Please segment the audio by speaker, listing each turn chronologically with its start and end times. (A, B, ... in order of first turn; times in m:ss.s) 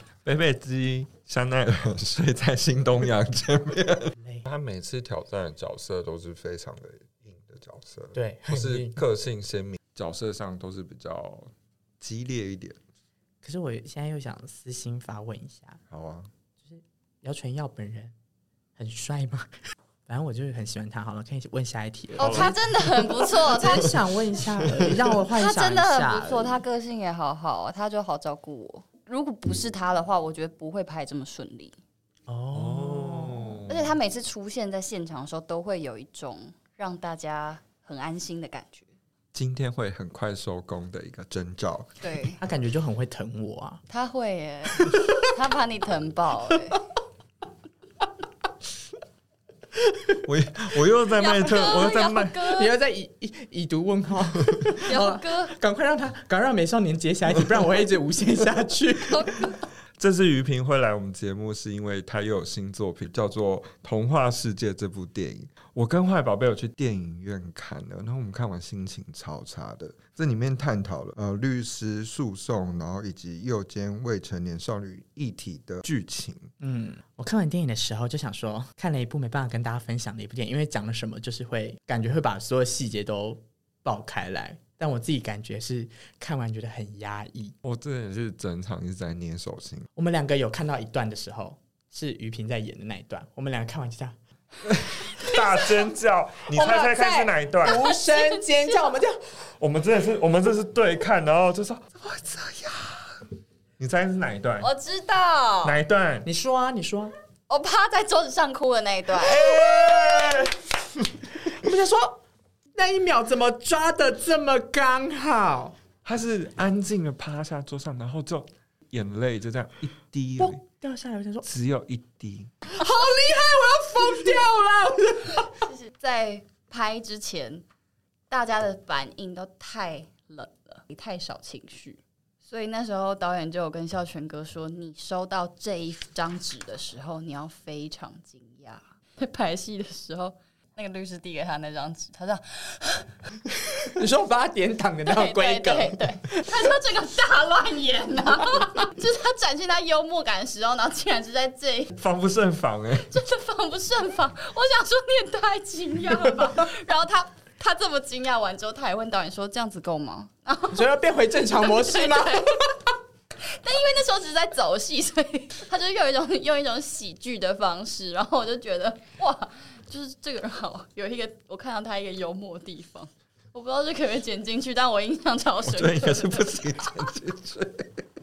0:00.2-0:12.8 A
0:04.2-0:04.4 B
0:08.1-0:09.0 B
0:13.4-0:15.8 B
0:15.9-0:16.3 A
0:16.6-0:18.1 B
0:18.8-0:19.5 B
0:20.0-0:22.6 B
0:22.2-0:24.0 C
0:22.2-0:23.2 A
0:23.4-0:26.6 B
0:25.3-0:31.8 C
0:32.3-0:33.6 B
0:32.5-0:33.9 A
0:33.7-0:38.9 C
0:39.3-0:42.0 A
0:42.0-0:42.4 C
0:42.4-0:43.8 B
0:43.9-0:46.8 C
0:44.8-0:45.3 B
0:50.2-0:52.5 A
0:51.1-0:52.7 C
0:52.5-0:59.4 B
0:54.8-0:55.5 C
0:59.1-0:59.6 C
1:00.0-1:16.5 A
1:16.6-1:27.6 B
1:27.6-1:29.9 A
1:30.0-1:34.2 B
1:34.6-1:37.9 A
1:35.2-1:35.6 B
1:36.5-1:39.2 B
1:37.7-1:38.4 C
1:39.6-1:43.1 A
1:43.8-1:44.7 A
1:44.6-1:45.8 C
1:45.6-1:46.2 A
1:46.2-1:47.1 B
1:47.5-1:50.4 C
1:49.2-1:50.6 A
1:51.4-1:52.2 B
1:52.8-1:55.8 B
1:56.0-2:00.6 A
2:00.4-2:01.5 B
2:01.4-2:02.5 A
2:02.6-2:05.5 B
2:05.5-2:07.6 C
2:08.3-2:23.1 C
2:24.0-2:26.4 B
2:25.0-2:31.9 C
2:31.9-2:33.2 A
2:33.1-2:41.0 C
2:40.7-2:42.5 B
2:41.5-2:56.6 C
2:55.6-2:58.0 A